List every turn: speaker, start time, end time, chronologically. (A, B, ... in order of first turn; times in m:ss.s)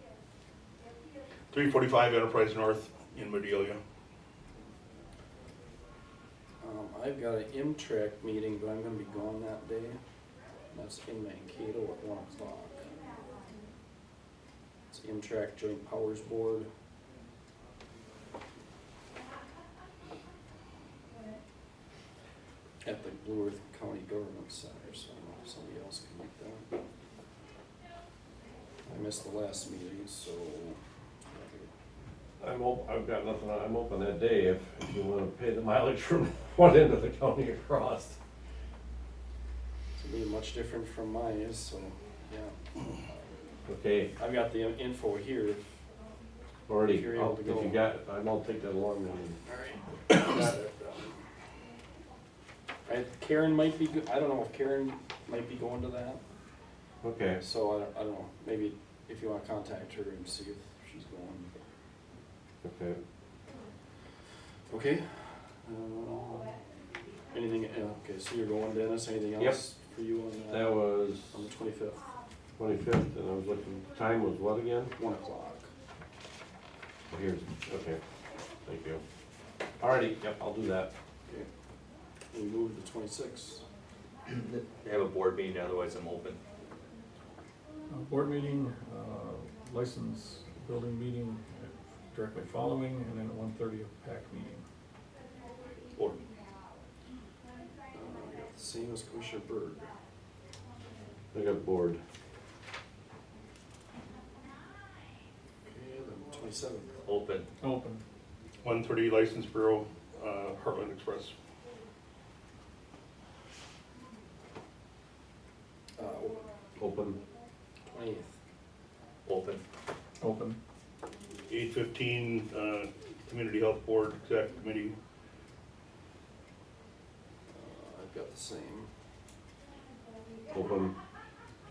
0:01.5-0:03.8 A
0:06.6-0:10.0 B
0:10.7-0:13.1 B
0:14.9-0:16.7 B
0:22.8-0:26.8 B
0:28.8-0:30.8 B
0:31.3-0:31.7 B
0:32.4-0:38.2 C
0:40.0-0:43.1 B
0:43.6-0:44.1 C
0:44.2-0:45.6 B
0:46.7-0:49.4 C
0:46.8-0:47.8 B
0:49.4-0:51.2 B
0:52.8-0:56.2 B
0:57.0-0:57.4 C
0:57.4-1:01.5 B
1:02.6-1:03.0 C
1:04.7-1:06.6 B
1:07.3-1:12.1 B
1:10.5-1:11.4 C
1:12.6-1:14.9 C
1:15.0-1:15.7 B
1:17.1-1:18.0 C
1:18.6-1:19.0 C
1:19.8-1:20.9 C
1:22.3-1:23.6 B
1:24.7-1:26.4 D
1:27.9-1:34.6 E
1:37.9-1:39.9 B
1:41.3-1:42.0 C
1:45.6-1:47.0 B
1:47.0-1:47.5 D
1:47.6-1:48.0 E
1:48.6-1:51.3 A
1:56.0-1:56.4 B
1:56.8-1:57.2 C
1:57.9-1:58.4 B
1:59.2-1:59.6 D
2:00.2-2:00.6 E
2:01.5-2:05.0 A
2:07.5-2:08.9 B
2:10.5-2:11.0 C